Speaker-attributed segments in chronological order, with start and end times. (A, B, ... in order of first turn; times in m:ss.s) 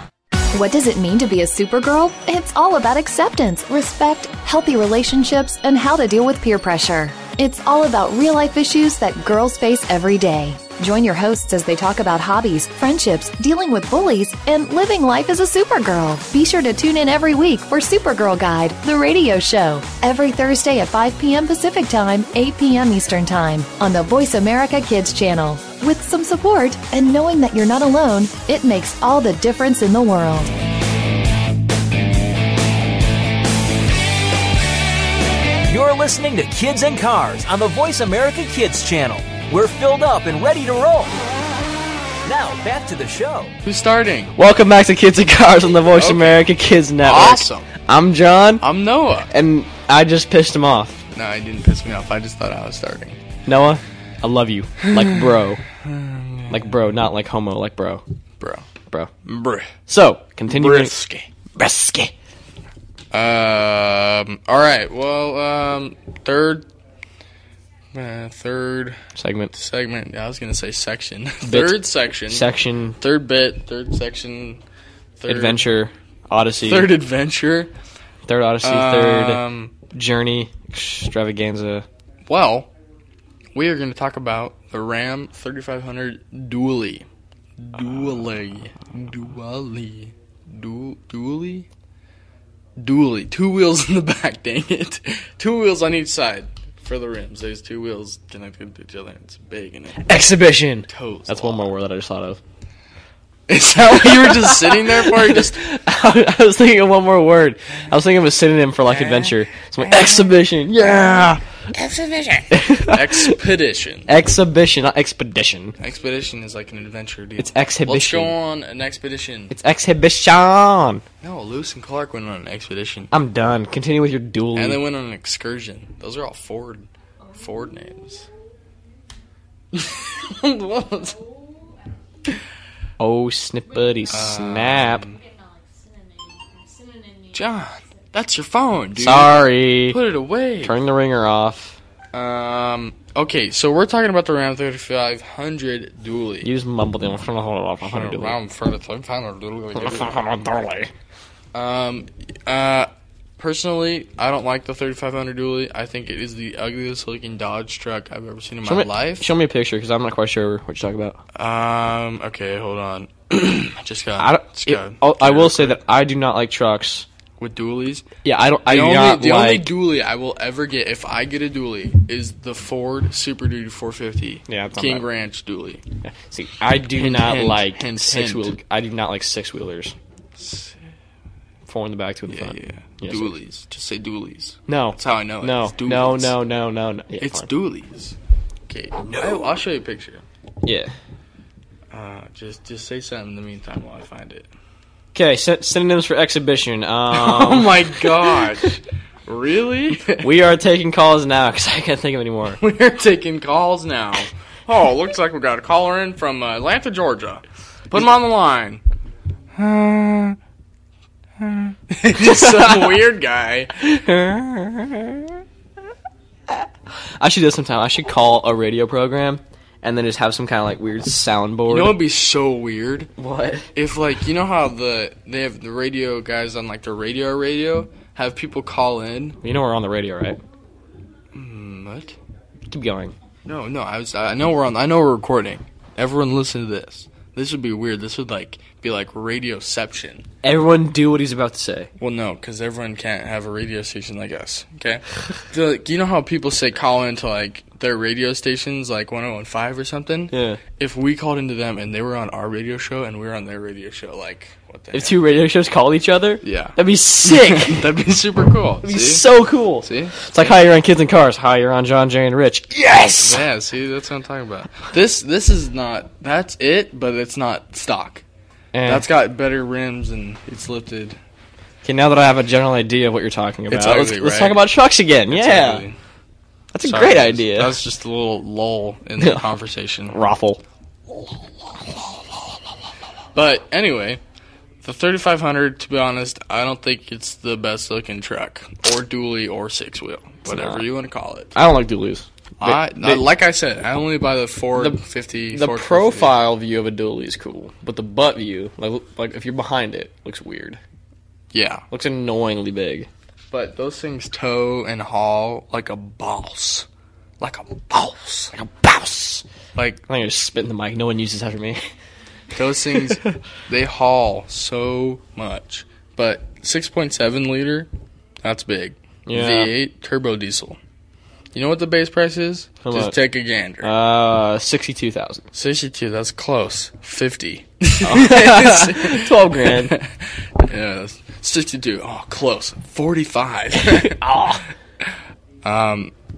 0:00.5-0:30.5 A
0:35.6-0:41.2 B
0:42.2-0:43.5 B
0:43.6-0:44.3 C
0:44.4-0:48.6 D
0:45.9-0:46.4 C
0:47.0-0:47.7 C
0:48.6-0:49.3 C
0:49.3-0:51.0 D
0:51.1-0:53.2 C
0:53.4-0:55.6 D
0:54.9-0:55.2 C
0:55.8-0:56.7 C
0:56.5-0:58.0 D
0:58.4-0:58.6 C
0:59.2-0:59.7 C
0:59.9-1:00.9 D
1:00.5-1:01.3 C
1:01.6-1:02.1 D
1:03.1-1:06.6 C
1:07.9-1:09.0 C
1:09.2-1:09.5 D
1:09.5-1:14.6 C
1:11.4-1:13.0 D
1:15.2-1:15.7 C
1:15.3-1:16.9 D
1:16.6-1:17.7 C
1:18.2-1:19.4 D
1:18.6-1:19.7 C
1:19.9-1:21.8 D
1:22.2-1:22.7 C
1:23.5-1:27.0 C
1:27.6-1:31.6 C
1:32.8-1:40.2 C
1:40.0-1:42.4 D
1:40.9-1:41.7 C
1:43.5-1:45.6 C
1:44.0-1:51.4 D
1:48.8-1:50.3 C
1:51.7-1:54.1 C
1:52.5-1:53.4 D
1:54.1-1:55.8 D
1:55.8-1:59.5 C
1:57.4-1:58.3 D
1:59.5-2:01.0 D
2:01.2-2:03.1 C
2:03.1-2:04.8 D
2:04.5-2:08.2 C
2:09.7-2:11.2 C
2:13.0-2:15.1 D
2:14.1-2:15.2 C
2:17.3-2:20.8 C
2:19.0-2:20.0 D
2:20.6-2:21.8 D
2:22.1-2:26.5 C
2:26.4-2:28.4 D
2:27.8-2:30.1 C
2:29.8-2:30.9 D
2:31.5-2:39.3 C
2:38.6-2:41.2 D
2:41.3-2:45.8 C
2:44.2-2:47.0 D
2:47.4-2:48.1 C
2:48.2-2:49.7 D
2:48.7-2:55.8 C
2:54.5-2:55.0 D
2:56.0-3:00.0 D
2:56.9-2:58.6 C
3:00.4-3:00.8 C
3:01.6-3:03.3 D
3:02.3-3:06.4 C
3:04.7-3:07.5 D
3:07.2-3:08.2 C
3:08.7-3:10.2 C
3:09.0-3:09.5 D
3:10.6-3:10.9 D
3:11.9-3:14.5 C
3:15.1-3:18.5 D
3:17.1-3:20.3 C
3:20.2-3:22.6 D
3:22.6-3:28.8 C
3:29.6-3:30.4 C
3:31.4-3:33.7 C
3:32.2-3:33.0 D
3:33.8-3:35.3 D
3:37.2-3:41.9 D
3:41.7-3:43.1 C
3:43.2-3:43.7 D
3:43.7-3:49.4 C
3:49.4-3:50.4 D
3:51.3-3:52.2 C
3:52.7-3:53.1 D
3:53.4-4:00.3 C
4:00.4-4:01.9 D
4:02.0-4:15.2 C
4:10.3-4:10.6 D
4:14.9-4:17.8 D
4:16.4-4:19.3 C
4:18.8-4:23.4 D
4:19.8-4:20.3 C
4:23.1-4:28.2 C
4:28.7-4:29.0 D
4:28.8-4:31.2 C
4:31.8-4:35.8 D
4:33.7-4:34.6 C
4:35.3-4:36.0 C
4:36.7-4:37.8 D
4:36.8-4:40.2 C
4:39.2-4:39.4 D
4:40.1-4:40.6 D
4:43.3-4:44.2 C
4:44.8-4:51.6 C
4:50.4-4:50.8 D
4:51.5-4:53.2 D
4:52.6-4:56.3 C
4:55.5-5:00.8 D
5:01.5-5:01.8 C
5:01.9-5:03.1 D
5:03.5-5:06.8 C
5:07.4-5:08.5 C
5:08.5-5:09.4 D
5:09.7-5:10.0 C
5:10.1-5:11.8 D
5:12.5-5:17.9 C
5:18.4-5:20.8 C
5:19.2-5:19.7 D
5:21.5-5:23.9 C
5:22.8-5:23.2 D
5:23.8-5:25.4 D
5:25.5-5:34.2 C
5:28.0-5:29.9 D
5:33.8-5:34.6 D
5:35.6-5:36.1 C